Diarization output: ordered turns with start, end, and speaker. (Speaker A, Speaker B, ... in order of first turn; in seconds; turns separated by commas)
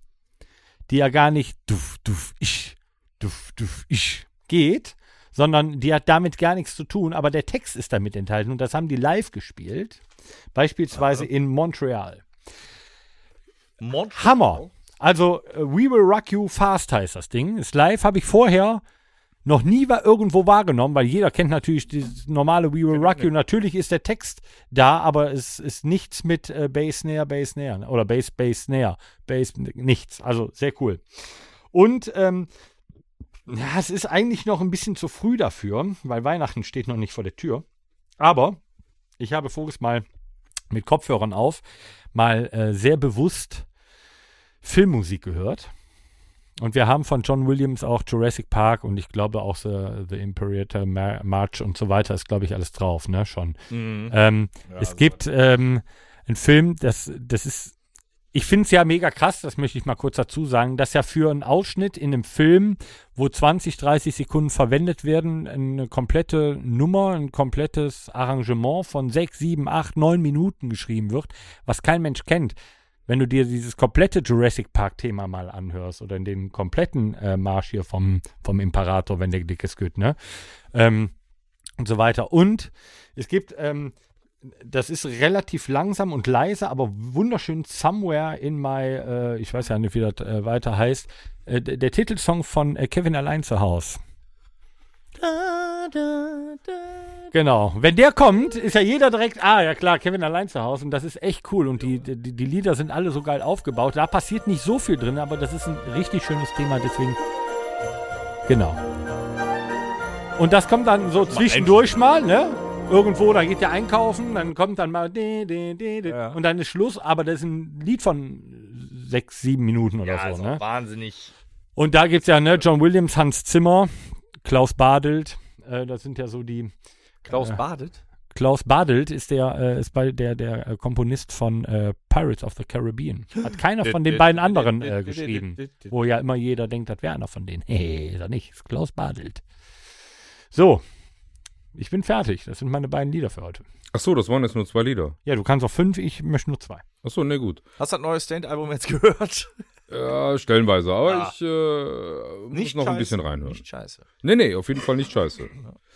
Speaker A: 0.9-10.0, Speaker A: 10.5-12.2, Speaker B: 13.8-14.7, Speaker A: 14.1-18.8, Speaker A: 19.4-31.0, Speaker B: 22.9-23.3, Speaker A: 31.7-32.5, Speaker A: 33.5-37.6, Speaker A: 38.2-38.6, Speaker A: 39.2-40.0, Speaker A: 40.7-41.6, Speaker A: 42.1-43.6, Speaker A: 44.6-45.7, Speaker A: 46.6-53.6, Speaker B: 53.7-54.1, Speaker A: 54.1-57.8, Speaker B: 54.7-55.1, Speaker A: 58.3-72.5, Speaker A: 73.1-80.2, Speaker A: 80.7-81.1, Speaker A: 81.8-83.9, Speaker A: 84.5-94.0, Speaker B: 95.2-96.9, Speaker A: 97.3-107.2, Speaker A: 108.5-108.8, Speaker A: 110.4-120.6, Speaker B: 111.2-111.9, Speaker B: 116.0-116.4, Speaker B: 120.0-121.3, Speaker A: 121.8-123.9, Speaker A: 124.4-126.7, Speaker B: 127.2-128.0, Speaker A: 127.3-127.6, Speaker A: 128.3-139.4, Speaker B: 133.8-135.9, Speaker A: 140.5-140.8, Speaker A: 141.7-143.6, Speaker C: 143.9-145.2, Speaker A: 145.2-146.8, Speaker C: 147.0-147.6, Speaker B: 147.8-149.5, Speaker C: 149.9-153.6, Speaker B: 151.1-151.3, Speaker B: 152.5-154.1, Speaker C: 154.2-155.5